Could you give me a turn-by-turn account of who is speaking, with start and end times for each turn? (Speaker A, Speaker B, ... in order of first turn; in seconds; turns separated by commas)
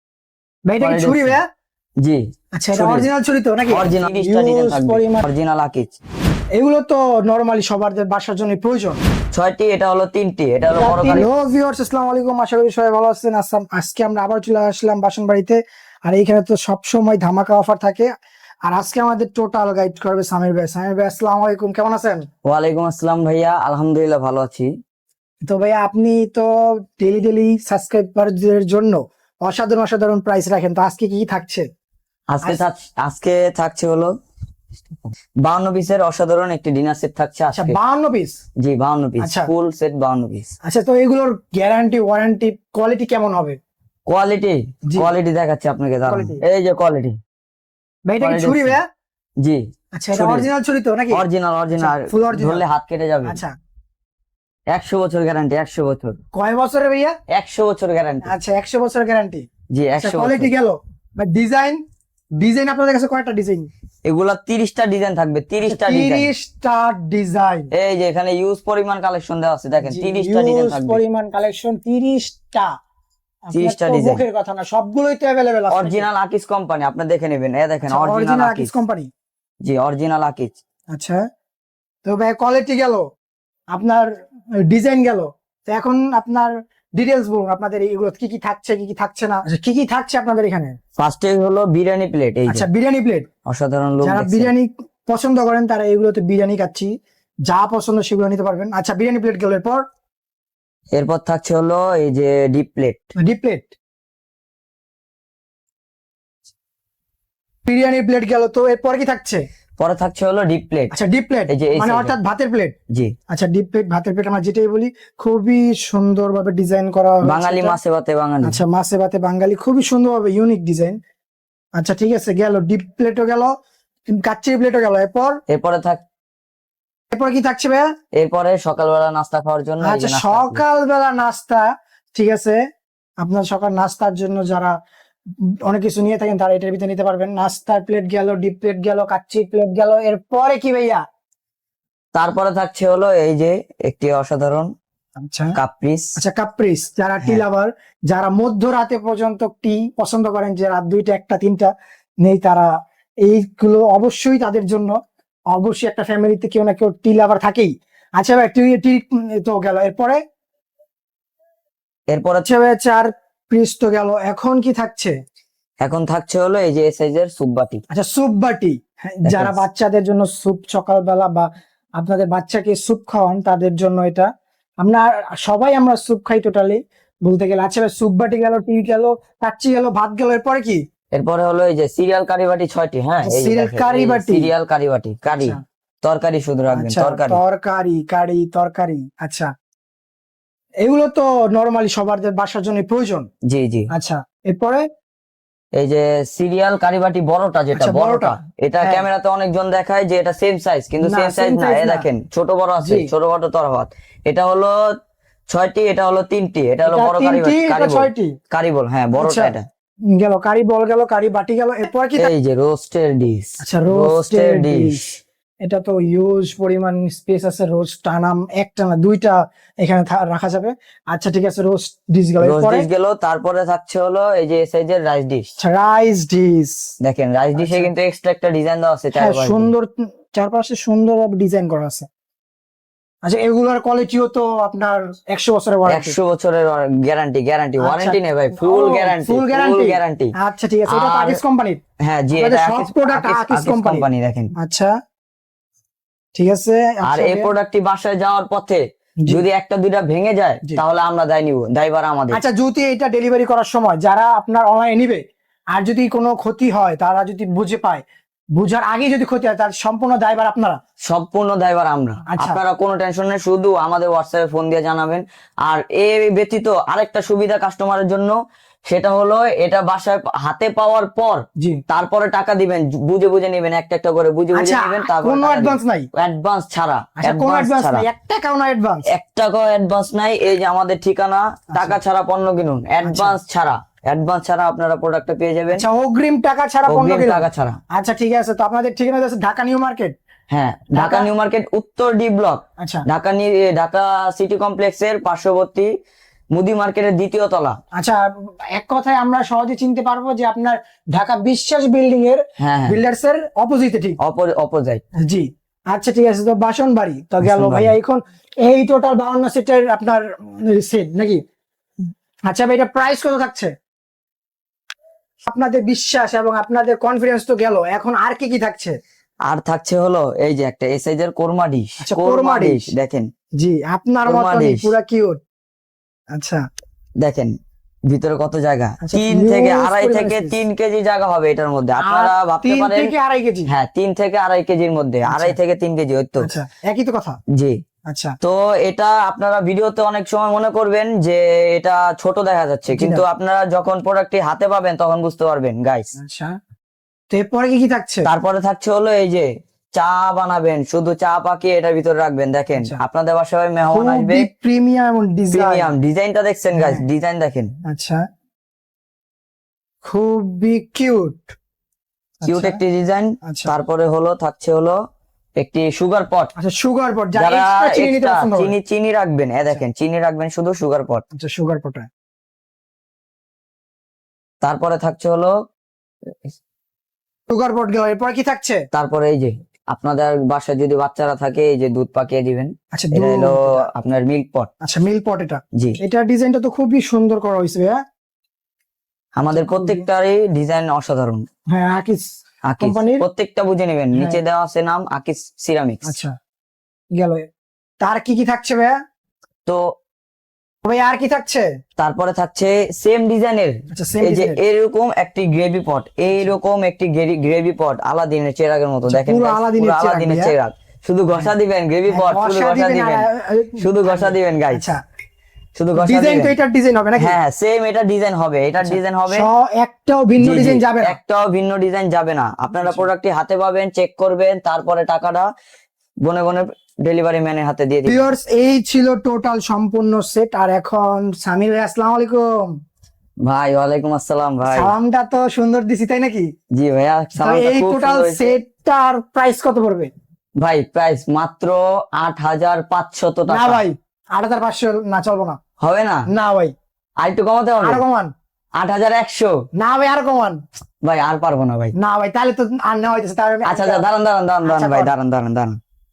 Speaker A: 0.7-1.4, Speaker B: 0.8-1.4, Speaker A: 2.5-5.2, Speaker B: 2.7-3.1, Speaker B: 3.7-5.9, Speaker A: 6.5-9.0, Speaker B: 9.3-11.3, Speaker A: 10.7-18.1, Speaker A: 18.7-22.2, Speaker B: 22.4-24.7, Speaker A: 25.5-31.6, Speaker B: 32.3-34.1, Speaker B: 35.5-37.8, Speaker A: 37.5-38.4, Speaker B: 38.6-40.5, Speaker A: 39.2-39.5, Speaker A: 40.6-43.6, Speaker B: 44.1-47.2, Speaker A: 46.1-46.4, Speaker A: 48.1-48.9, Speaker B: 48.2-48.8, Speaker A: 49.9-51.2, Speaker B: 50.1-50.5, Speaker B: 51.1-53.4, Speaker A: 51.8-52.6, Speaker A: 53.2-53.5, Speaker B: 54.7-56.2, Speaker A: 56.3-57.2, Speaker B: 57.3-58.3, Speaker A: 58.2-61.8, Speaker B: 59.7-60.5, Speaker A: 62.4-63.7, Speaker B: 64.1-66.3, Speaker A: 65.6-67.7, Speaker B: 67.7-71.0, Speaker A: 69.8-72.7, Speaker A: 73.5-76.1, Speaker B: 73.5-74.2, Speaker B: 75.7-78.7, Speaker A: 77.9-79.1, Speaker B: 79.6-80.6, Speaker A: 80.9-81.2, Speaker A: 82.0-83.0, Speaker A: 83.7-84.1, Speaker A: 84.7-90.8, Speaker B: 91.0-92.7, Speaker A: 92.5-93.3, Speaker B: 93.5-94.5, Speaker A: 94.0-96.9, Speaker A: 97.5-99.8, Speaker B: 100.9-103.0, Speaker A: 103.2-103.7, Speaker A: 107.7-109.5, Speaker B: 109.8-110.9, Speaker A: 110.9-112.7, Speaker B: 111.5-112.1, Speaker A: 113.3-117.8, Speaker B: 117.2-118.6, Speaker A: 118.4-121.0, Speaker A: 121.8-123.5, Speaker A: 124.1-125.4, Speaker B: 125.5-126.0, Speaker A: 127.1-127.8, Speaker B: 128.2-130.6, Speaker A: 129.8-132.6, Speaker A: 133.2-134.7, Speaker A: 135.7-141.0, Speaker B: 142.1-144.7, Speaker A: 145.3-145.6, Speaker B: 145.6-146.1, Speaker A: 146.2-151.7, Speaker A: 152.2-152.7, Speaker A: 153.2-154.9, Speaker A: 155.5-160.2, Speaker B: 162.1-162.4, Speaker A: 162.4-165.1, Speaker B: 165.8-167.8, Speaker A: 167.9-174.3, Speaker B: 169.2-169.6, Speaker A: 174.8-180.8, Speaker B: 181.1-187.4, Speaker A: 183.2-184.5, Speaker A: 185.3-185.6, Speaker A: 186.7-189.5, Speaker A: 190.8-193.3, Speaker B: 193.5-193.9, Speaker A: 193.9-194.8, Speaker B: 195.8-204.8, Speaker A: 197.7-199.1, Speaker A: 201.0-202.1, Speaker A: 202.8-203.1, Speaker B: 205.5-209.7, Speaker A: 206.8-208.3, Speaker A: 209.2-209.5, Speaker A: 210.1-212.3, Speaker B: 212.2-215.2, Speaker A: 213.6-215.0, Speaker A: 215.6-222.9, Speaker B: 222.4-225.4, Speaker A: 225.6-226.9, Speaker B: 227.0-229.7, Speaker A: 227.5-227.9, Speaker A: 229.1-232.1, Speaker A: 233.2-236.2, Speaker B: 235.9-240.3, Speaker A: 237.8-241.8, Speaker B: 240.9-241.4, Speaker B: 242.0-244.5, Speaker A: 242.3-244.1, Speaker A: 244.6-244.9, Speaker A: 246.3-247.5, Speaker B: 247.0-252.4, Speaker A: 252.3-258.0, Speaker A: 258.6-260.8, Speaker B: 261.1-268.4, Speaker A: 262.3-262.6, Speaker B: 268.9-278.1, Speaker A: 274.5-276.1, Speaker A: 277.2-279.1, Speaker B: 279.1-285.8, Speaker A: 281.7-282.0, Speaker A: 283.0-283.4, Speaker A: 285.7-290.1, Speaker B: 286.9-287.8, Speaker B: 290.5-295.9, Speaker A: 290.9-291.3, Speaker A: 292.8-293.0, Speaker B: 296.5-297.8, Speaker A: 297.9-304.2, Speaker B: 302.6-303.0, Speaker B: 304.2-305.0, Speaker A: 305.2-311.4, Speaker B: 307.4-307.9, Speaker A: 312.5-313.7, Speaker A: 315.4-319.0, Speaker B: 319.5-323.3, Speaker A: 322.0-322.9, Speaker A: 323.6-325.4, Speaker B: 324.2-324.9, Speaker A: 326.3-326.6, Speaker B: 327.2-327.5, Speaker B: 328.1-333.1, Speaker A: 329.0-330.6, Speaker A: 332.0-333.7, Speaker B: 333.7-336.5, Speaker A: 335.3-335.6, Speaker A: 336.4-337.4, Speaker B: 337.5-337.8, Speaker A: 338.1-338.4, Speaker B: 338.4-346.1, Speaker A: 342.9-343.2, Speaker A: 346.1-346.6, Speaker A: 347.3-348.3, Speaker B: 348.2-354.5, Speaker A: 353.9-355.9, Speaker B: 355.5-357.7, Speaker A: 356.7-357.0, Speaker A: 357.8-358.2, Speaker A: 360.0-361.6, Speaker A: 362.4-362.8, Speaker B: 362.4-365.0, Speaker A: 363.4-363.7, Speaker B: 365.6-366.5, Speaker A: 366.6-368.7, Speaker B: 367.3-371.2, Speaker A: 371.3-372.1, Speaker B: 374.6-375.5, Speaker A: 377.5-378.8, Speaker B: 378.9-384.7, Speaker A: 382.9-383.8, Speaker A: 384.8-388.0, Speaker B: 389.4-391.4, Speaker A: 389.5-390.0, Speaker A: 391.7-393.2, Speaker B: 392.6-396.1, Speaker A: 394.1-394.4, Speaker A: 396.0-396.3, Speaker A: 397.1-397.4, Speaker A: 398.0-398.9, Speaker A: 400.8-401.7, Speaker B: 402.0-413.3, Speaker A: 403.9-404.6, Speaker A: 409.1-410.5, Speaker A: 412.1-415.0, Speaker B: 413.8-414.9, Speaker B: 415.8-416.5, Speaker A: 415.9-417.3, Speaker B: 417.2-419.5, Speaker A: 418.8-421.2, Speaker B: 420.4-425.5, Speaker A: 422.8-423.1, Speaker B: 426.2-428.2, Speaker A: 428.1-432.7, Speaker B: 433.4-434.9, Speaker A: 434.6-436.5, Speaker B: 436.8-438.5, Speaker A: 437.4-440.1, Speaker B: 440.6-443.8, Speaker A: 443.5-445.6, Speaker B: 445.8-446.3, Speaker A: 446.3-446.7, Speaker B: 447.2-448.0, Speaker A: 447.8-448.3, Speaker B: 448.8-449.5, Speaker A: 449.8-450.6, Speaker B: 451.0-451.9, Speaker A: 452.0-454.0, Speaker B: 453.6-455.8, Speaker A: 454.6-455.1